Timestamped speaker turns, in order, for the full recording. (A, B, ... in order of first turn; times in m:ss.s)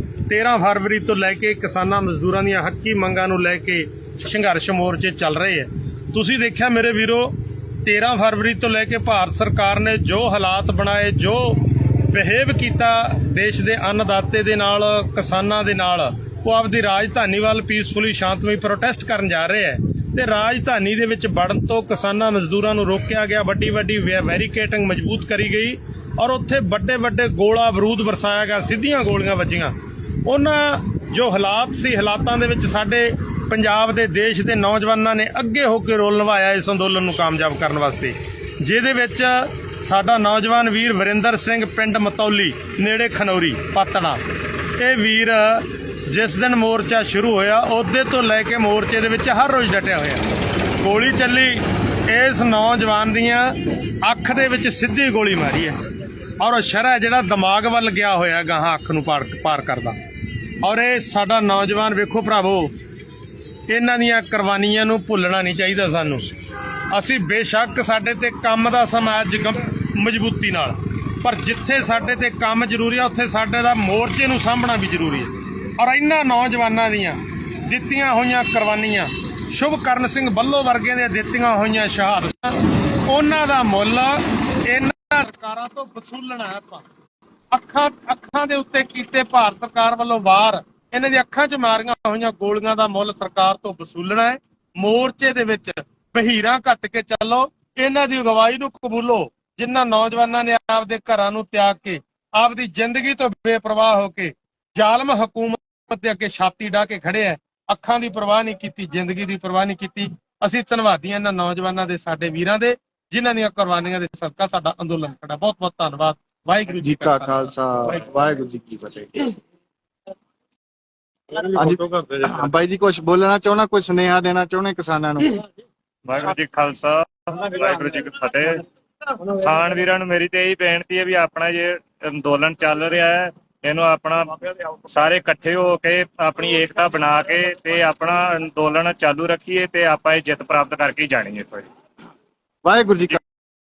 0:00.3-0:07.3 A
0:07.8-0:29.7 A
0:30.2-0:44.2 A
0:44.8-0:50.2 A
0:50.8-0:55.8 A
0:56.4-1:00.0 A
1:00.6-1:02.7 A
1:03.7-1:06.2 A
1:06.9-1:26.8 A
1:27.5-1:58.1 A
1:56.8-1:59.3 B
2:01.4-2:02.4 A
2:01.5-2:05.4 B
2:06.0-2:08.6 C
2:09.2-2:21.7 C
2:22.6-2:23.2 B